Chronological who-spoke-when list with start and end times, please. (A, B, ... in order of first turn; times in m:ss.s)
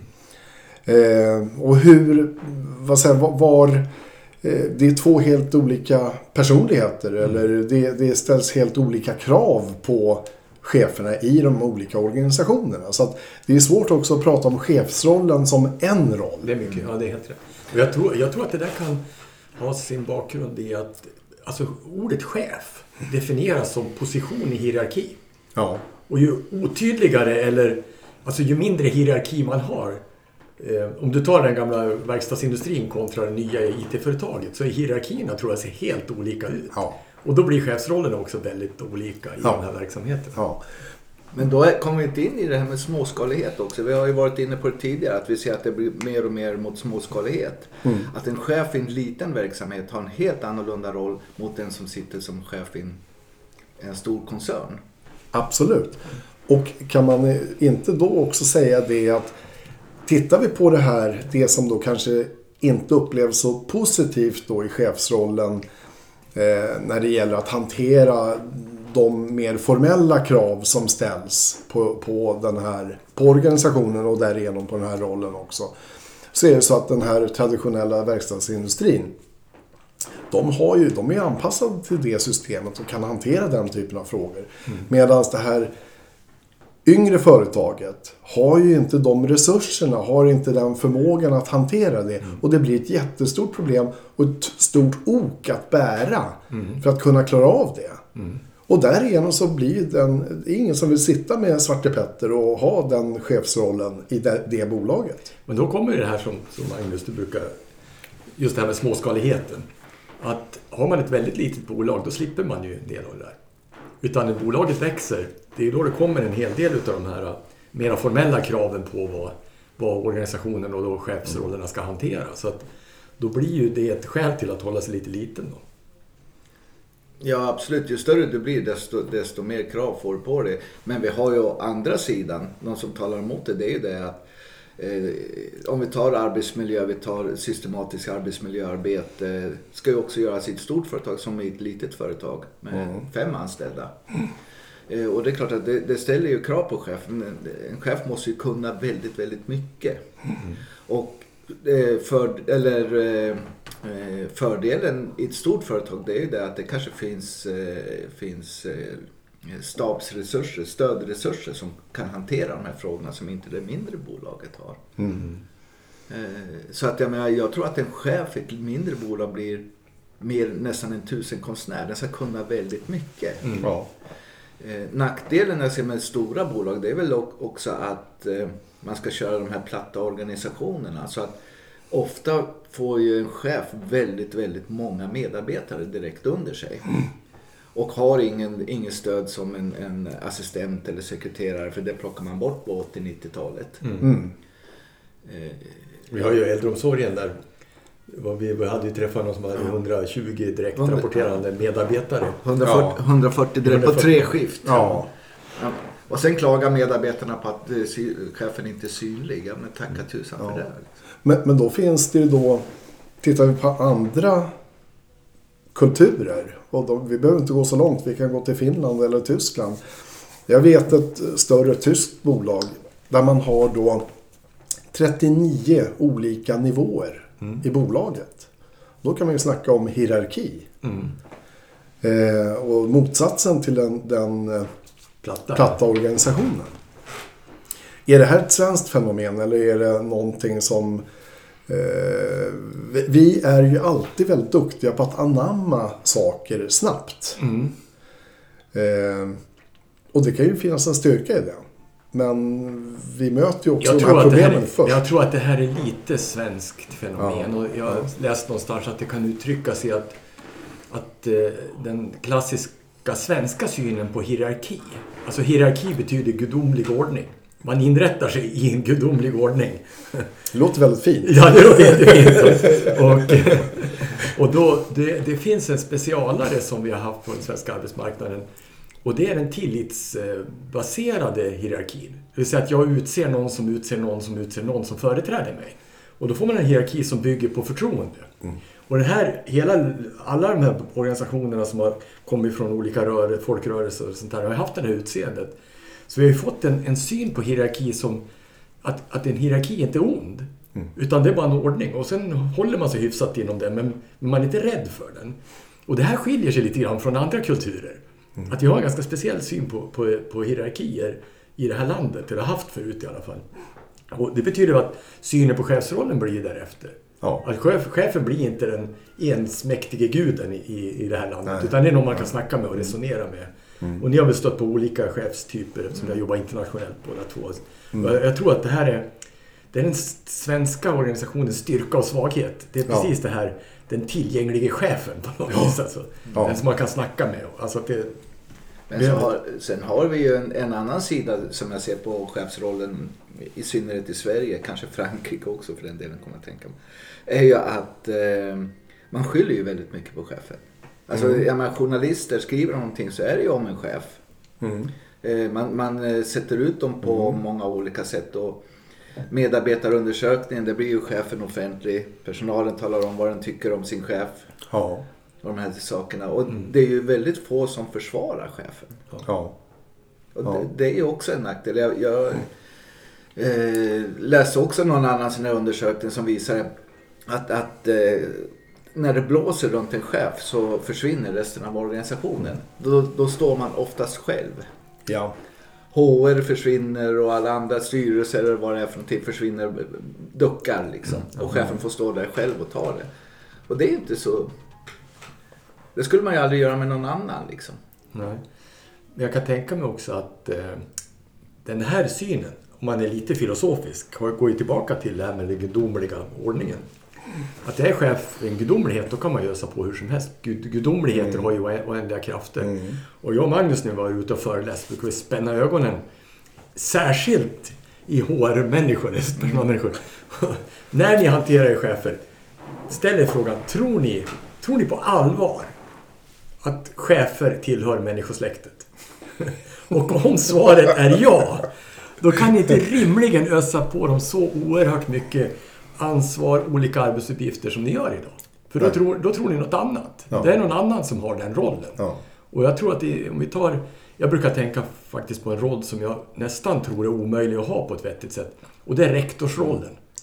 0:00.8-0:03.8 A
0:04.4-0:16.5 A
0:16.4-0:19.0 B
0:19.6-0:25.2 B
0:25.6-0:25.8 A
0:26.1-0:30.0 B
0:30.6-0:40.4 B
0:40.4-0:40.6 A
0:41.3-0:53.0 C
0:53.8-0:54.8 C
0:55.3-0:59.3 A
1:00.0-1:05.6 A
1:06.3-1:15.7 A
1:16.3-1:19.1 A
1:20.3-1:25.7 A
1:26.8-1:38.0 A
1:36.5-1:36.8 B
1:38.7-1:45.3 A
1:45.5-1:47.5 B
1:48.4-1:49.6 B
1:50.2-1:53.4 B
1:54.0-2:02.6 B
2:03.2-2:05.6 B
2:07.2-2:14.2 C
2:14.8-2:23.9 C
2:24.9-2:30.0 C
2:30.8-2:44.9 C
2:45.0-2:45.2 A
2:45.0-2:45.4 B
2:46.1-2:49.6 C
2:50.2-2:53.7 C
2:53.6-2:53.9 A
2:54.6-3:01.3 C
3:01.9-3:06.9 C
3:07.7-3:13.8 C
3:13.8-3:14.1 B
3:14.0-3:14.3 A
3:15.2-3:15.8 C
3:16.1-3:17.4 B
3:18.1-3:22.4 B
3:20.8-3:21.4 C
3:22.4-3:30.9 C
3:22.6-3:23.0 A
3:23.6-3:24.3 B
3:24.6-3:25.1 A
3:31.2-3:32.6 A
3:33.2-3:34.5 A
3:35.7-3:39.8 A
3:40.5-3:44.0 A
3:44.9-3:48.5 A
3:49.0-3:50.7 A
3:50.8-3:51.1 B
3:52.0-3:54.7 A
3:55.2-3:55.8 B
3:55.5-3:56.7 A
3:58.0-4:01.0 A
4:01.7-4:07.4 A
4:07.4-4:07.7 B
4:08.7-4:09.4 A
4:10.1-4:15.0 A
4:13.8-4:20.2 B
4:17.2-4:18.0 A
4:20.9-4:30.3 B
4:30.5-4:33.0 A
4:31.2-4:38.4 B
4:39.0-4:48.3 B
4:48.9-4:55.5 B
4:56.1-4:58.2 B
4:58.8-5:13.4 B
5:14.1-5:29.1 B
5:29.7-5:38.2 B
5:38.9-5:54.2 C
5:54.6-5:54.9 A
5:55.2-5:58.6 C
5:59.3-6:04.5 C
6:04.7-6:05.0 A
6:05.4-6:09.1 C
6:09.2-6:09.5 A
6:10.3-6:12.5 C
6:13.4-6:16.7 C
6:17.3-6:24.7 C
6:25.1-6:25.3 A
6:25.9-6:33.1 C
6:31.4-6:31.7 B
6:33.7-6:34.5 C
6:35.9-6:37.8 C
6:38.1-6:38.4 B
6:39.1-6:40.8 B
6:41.6-6:46.9 B
6:47.6-6:56.0 B
6:51.1-6:51.4 A
6:52.6-6:53.0 A
6:56.7-7:02.2 B
7:02.9-7:05.7 B
7:06.6-7:30.0 B